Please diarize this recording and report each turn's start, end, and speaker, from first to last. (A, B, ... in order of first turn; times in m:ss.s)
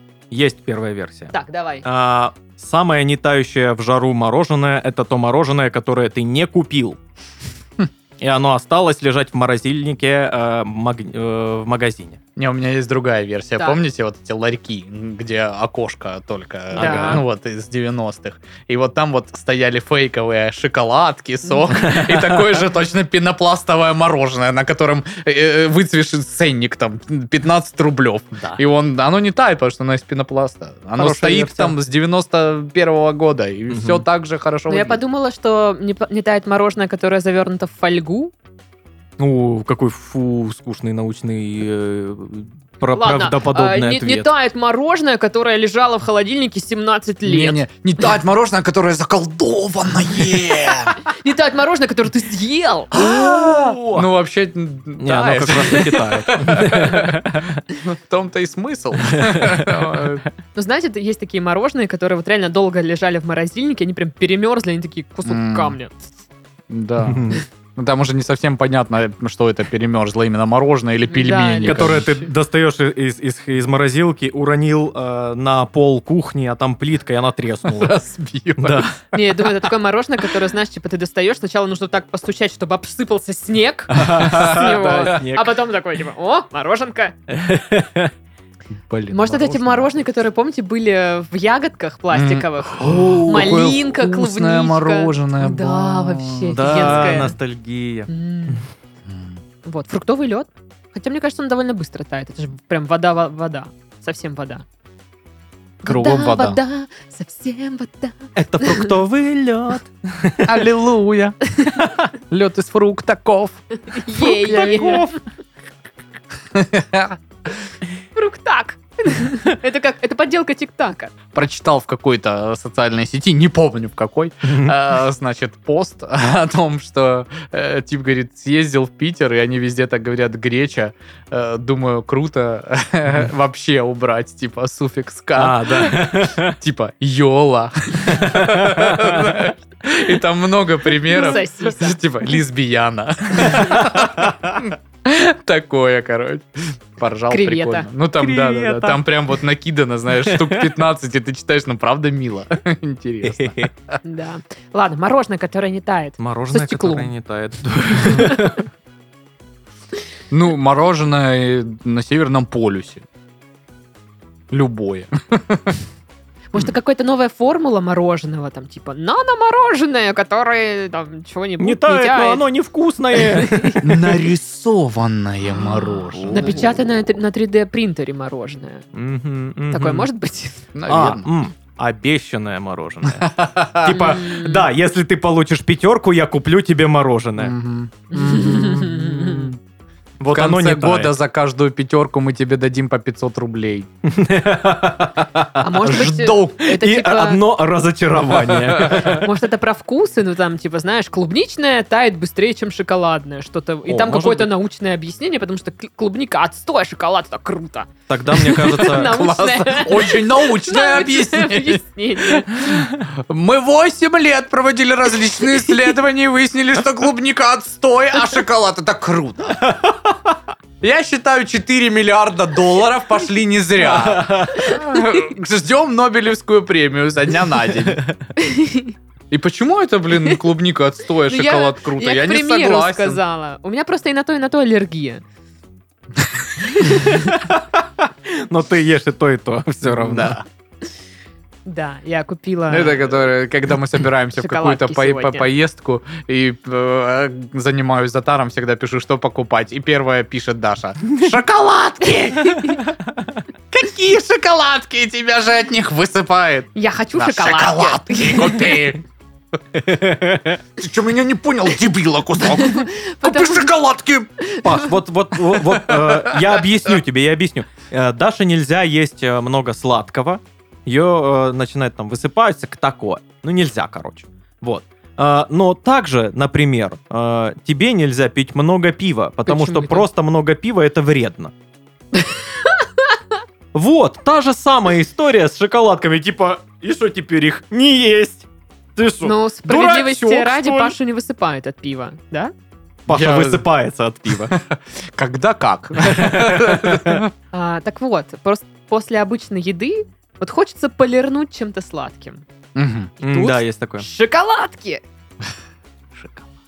0:00.3-0:07.0 A
0:01.3-0:01.9 B
0:08.2-0:12.2 A
0:12.4-0:35.0 C
0:16.8-0:17.2 B
0:16.8-0:17.2 A
0:21.7-0:22.5 A
0:31.0-0:31.8 A
0:33.7-0:34.0 A
0:34.7-0:38.3 B
0:39.2-0:44.3 A
0:43.0-0:47.6 B
0:47.2-0:51.0 C
0:51.0-0:53.0 B
0:52.9-0:57.2 C
0:53.0-0:54.1 A
0:55.0-0:57.6 A
0:57.8-1:00.2 C
0:59.0-1:00.1 A
1:00.6-1:06.0 B
1:05.2-1:05.8 C
1:06.7-1:12.2 C
1:07.0-1:07.4 A
1:11.1-1:12.2 B
1:11.6-1:18.0 A
1:17.7-1:19.4 C
1:18.6-1:19.0 A
1:19.1-1:27.2 B
1:23.9-1:25.6 A
1:24.3-1:24.6 C
1:27.3-1:28.1 A
1:28.9-1:30.0 C
1:29.1-1:37.4 B
1:32.1-1:37.3 C
1:32.8-1:33.7 A
1:36.5-1:38.6 A
1:38.1-1:38.6 B
1:39.1-1:39.4 C
1:39.6-1:44.6 B
1:45.8-1:48.9 B
1:45.8-1:46.6 C
1:48.4-1:50.6 A
1:50.4-1:51.6 C
1:51.8-1:52.0 A
1:52.3-1:55.1 C
1:53.9-1:55.1 B
1:54.2-1:55.2 A
1:56.5-1:57.2 C
1:58.2-2:01.1 B
2:01.3-2:33.9 C
2:04.5-2:04.8 A
2:15.4-2:16.6 A
2:18.1-2:19.4 A
2:21.1-2:22.0 B
2:23.5-2:24.6 A
2:27.3-2:27.9 B
2:28.2-2:29.0 A
2:30.2-2:30.7 A
2:33.2-2:33.7 A
2:34.0-2:37.1 B
2:36.2-2:38.6 A
2:38.0-2:38.6 B
2:40.3-2:43.0 C
2:44.5-2:45.8 C
2:46.5-2:52.4 B
2:51.6-2:54.0 A
2:53.2-2:53.8 B
2:53.8-2:56.7 C
2:56.2-2:56.6 A
2:56.2-2:58.9 B
2:58.9-3:00.1 A
2:59.7-3:00.6 B
3:00.7-3:01.3 C
3:00.9-3:03.3 A
3:03.1-3:04.0 C
3:03.8-3:07.6 A
3:03.9-3:04.7 B
3:07.4-3:09.6 C
3:08.1-3:09.5 B
3:10.2-3:11.1 A
3:10.3-3:13.9 C
3:14.0-3:19.3 A
3:15.6-3:17.4 B
3:15.8-3:16.6 C
3:18.3-3:19.2 C
3:18.9-3:32.7 B
3:23.9-3:24.5 A
3:28.1-3:29.2 A
3:28.8-3:39.6 C
3:39.6-3:40.4 A
3:40.8-3:48.0 C
3:43.8-3:44.8 A
3:48.4-3:49.0 B
3:49.3-3:53.2 C
3:51.3-3:55.2 B
3:56.7-3:57.3 B
3:56.9-4:00.4 A
3:59.8-4:00.5 C
4:01.7-4:03.3 B
4:02.7-4:12.8 C
4:04.4-4:05.5 B
4:12.4-4:12.8 B
4:13.7-4:19.0 C
4:16.8-4:18.8 B
4:19.8-4:20.6 A
4:20.8-4:24.3 C
4:22.6-4:23.7 B
4:24.4-4:24.8 B
4:24.6-4:41.5 A
4:25.6-4:26.6 C
4:39.5-4:40.1 B
4:42.2-4:43.2 B
4:43.7-4:50.9 A
4:49.2-4:52.5 B
4:53.1-4:54.5 A
4:53.1-4:53.6 C
4:54.3-4:57.3 C
4:56.0-4:57.2 A
4:57.5-5:02.4 B
5:02.8-5:03.1 C
5:03.2-5:05.0 B
5:03.2-5:04.0 A
5:06.2-5:06.5 A